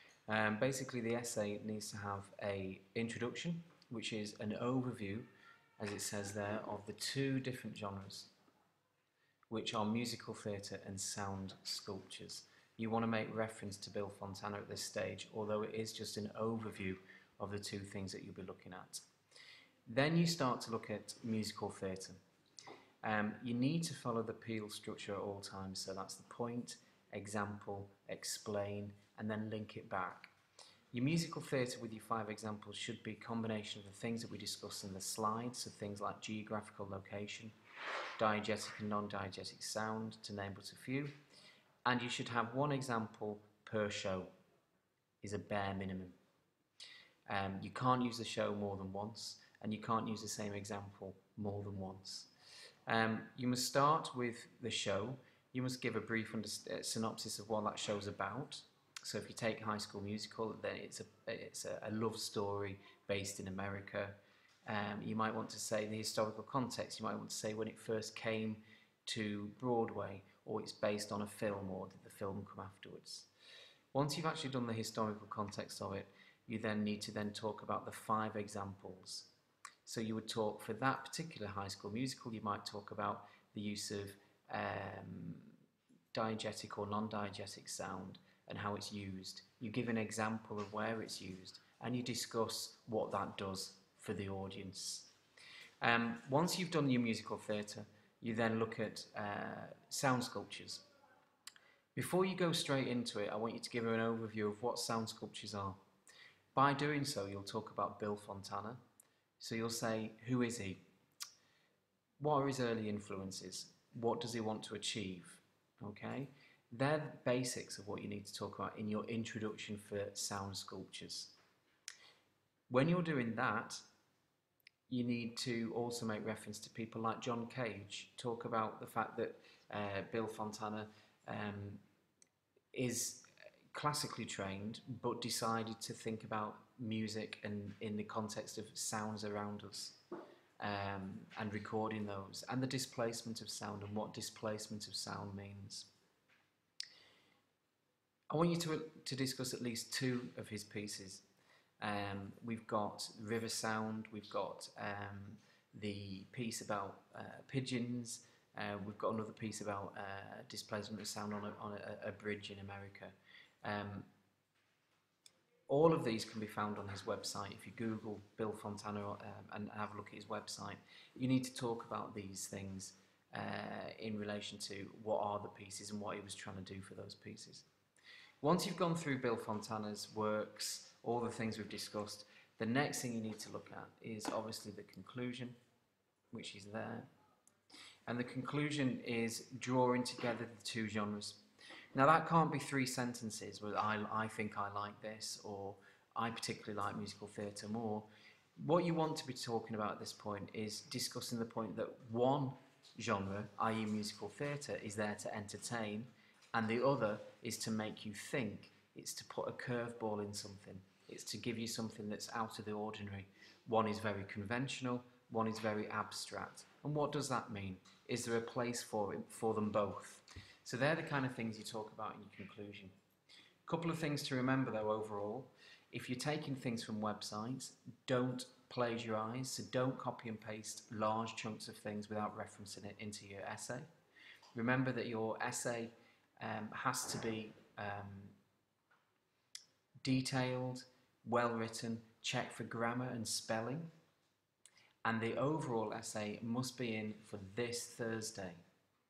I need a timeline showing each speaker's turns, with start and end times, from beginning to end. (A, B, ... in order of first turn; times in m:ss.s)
0:00.3-0:05.3 A
0:05.8-0:08.3 A
0:09.5-0:19.0 A
0:19.9-0:22.2 A
0:23.0-0:30.3 A
0:30.9-0:37.5 A
0:38.2-0:41.1 A
0:41.9-0:44.3 A
0:45.2-0:46.2 A
0:47.3-0:52.3 A
0:52.9-1:13.3 A
1:13.9-1:19.3 A
1:19.8-1:25.6 A
1:26.1-1:35.1 A
1:35.8-1:40.8 A
1:42.0-1:45.8 A
1:46.5-1:48.8 A
1:49.4-1:50.8 A
1:52.2-2:01.3 A
2:02.7-2:03.8 A
2:04.9-2:11.8 A
2:12.7-2:20.0 A
2:20.6-2:25.9 A
2:28.3-2:31.2 A
2:31.8-2:44.1 A
2:45.7-2:57.7 A
2:58.4-3:05.6 A
3:06.3-3:07.1 A
3:08.1-3:11.4 A
3:11.9-3:42.9 A
3:43.7-3:53.9 A
3:54.6-3:58.4 A
4:00.0-4:03.9 A
4:05.0-4:08.6 A